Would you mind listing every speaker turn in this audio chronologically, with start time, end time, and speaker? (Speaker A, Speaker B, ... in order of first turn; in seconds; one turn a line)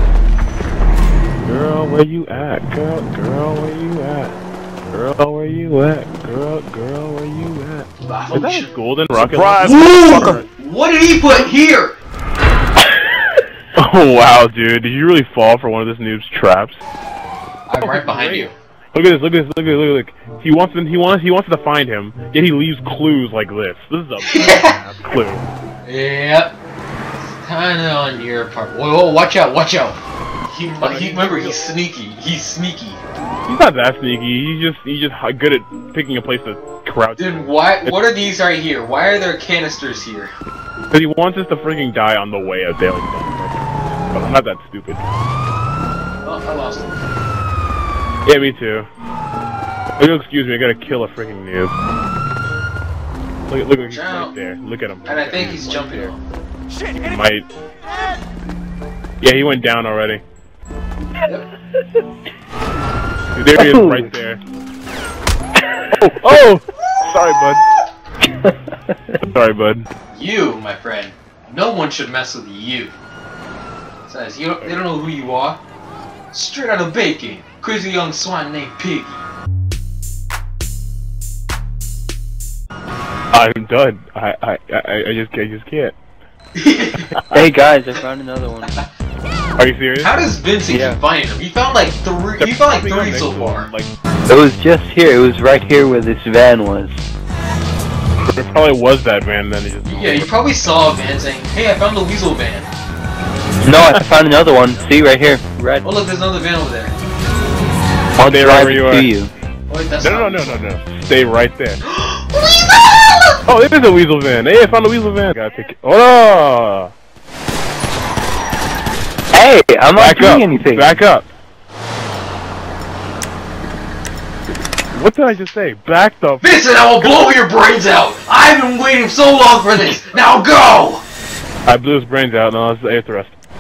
Speaker A: 1.4-4.3
Speaker A: 4.9-10.5
Speaker B: 8.0-8.7
Speaker B: 9.8-12.0
Speaker A: 13.8-16.8
Speaker B: 17.7-18.5
Speaker A: 17.8-25.4
Speaker B: 24.2-24.8
Speaker B: 25.9-26.5
Speaker B: 27.4-33.0
Speaker A: 30.8-31.6
Speaker A: 33.5-38.0
Speaker B: 37.2-40.3
Speaker A: 40.9-45.0
Speaker B: 46.2-47.0
Speaker A: 48.2-48.9
Speaker A: 50.0-51.7
Speaker A: 53.5-56.1
Speaker B: 53.8-54.3
Speaker B: 55.0-56.2
Speaker A: 57.0-57.5
Speaker A: 59.2-60.2
Speaker A: 63.4-64.4
Speaker C: 63.5-64.1
Speaker A: 65.9-67.6
Speaker C: 68.4-69.0
Speaker A: 69.2-69.9
Speaker B: 70.1-72.9
Speaker B: 74.0-75.6
Speaker B: 76.3-79.2
Speaker A: 83.3-86.0
Speaker B: 86.6-87.2
Speaker A: 87.1-87.5
Speaker C: 87.3-88.8
Speaker A: 89.6-90.2
Speaker B: 90.0-93.7
Speaker C: 90.7-91.0
Speaker A: 92.4-93.9
Speaker C: 94.3-97.0
Speaker A: 98.3-100.3
Speaker B: 99.8-102.7
Speaker C: 103.6-105.9
Speaker A: 103.7-104.0
Speaker B: 105.8-106.9
Speaker A: 108.2-109.1
Speaker C: 108.3-109.3
Speaker B: 109.7-110.6
Speaker A: 110.0-111.8
Speaker B: 111.8-113.4
Speaker A: 113.5-116.9
Speaker C: 119.3-121.0
Speaker A: 119.9-121.3
Speaker A: 124.9-126.5
Speaker B: 126.4-131.0
Speaker A: 131.7-133.3